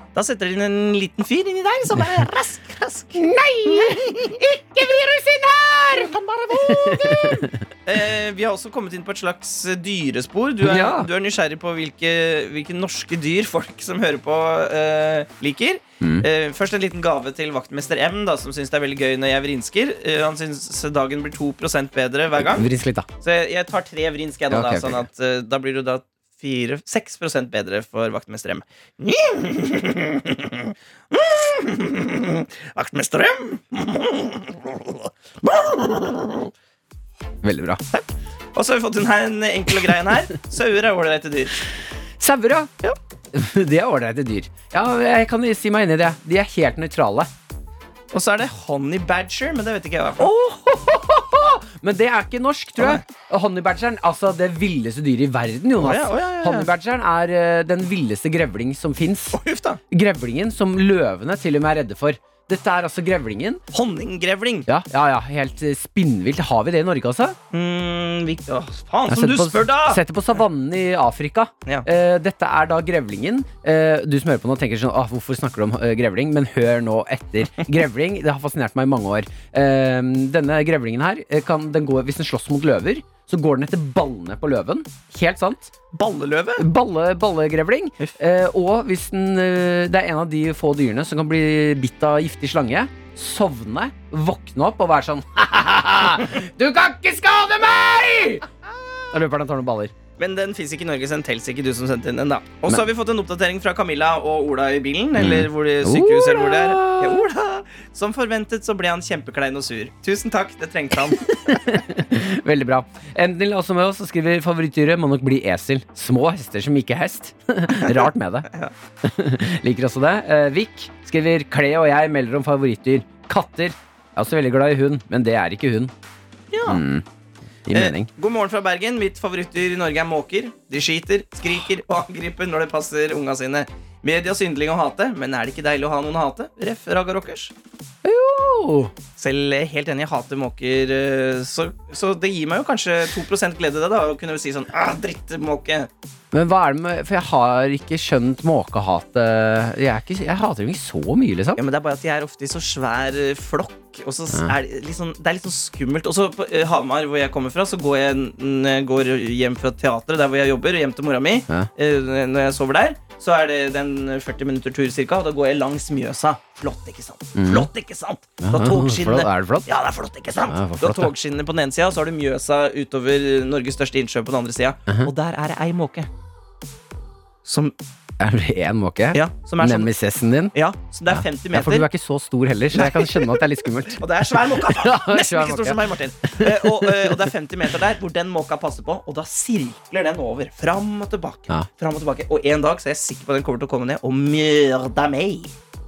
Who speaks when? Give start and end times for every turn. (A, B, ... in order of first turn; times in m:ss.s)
0:00.1-0:05.0 A
0:03.2-0:07.6 B
0:05.9-0:22.7 A
0:10.6-0:11.1 B
0:16.0-0:16.3 B
0:22.4-0:23.1 B
0:23.2-0:36.5 A
0:24.5-0:25.0 B
0:37.4-0:37.8 B
0:37.9-0:41.6 A
0:42.2-0:42.7 B
0:43.3-0:47.3 B
0:48.1-0:50.3 A
0:50.2-0:59.4 B
0:52.8-0:53.0 A
0:55.8-0:56.7 A
0:59.3-0:59.8 A
0:59.9-1:03.6 B
1:03.7-1:04.7 A
1:04.7-1:07.4 B
1:07.5-1:10.0 A
1:09.1-1:25.7 B
1:25.9-1:26.6 A
1:26.6-1:38.4 B
1:39.1-1:39.9 B
1:40.2-1:51.6 A
1:45.2-1:47.3 B
1:51.3-1:58.5 B
1:57.8-1:58.7 A
1:59.0-2:05.9 B
2:06.5-2:06.8 A
2:06.6-2:07.0 B
2:07.6-2:08.1 B
2:07.7-2:17.5 A
2:18.0-2:18.9 B
2:19.2-2:25.9 A
2:26.3-2:31.6 B
2:31.6-2:56.1 A
2:47.4-2:47.7 B
2:48.4-2:49.7 B
2:50.5-2:51.1 B
2:57.4-2:57.7 A
2:58.2-3:00.5 B
2:59.1-2:59.9 A
3:00.5-3:01.9 A
3:01.1-3:07.2 B
3:02.7-3:15.5 A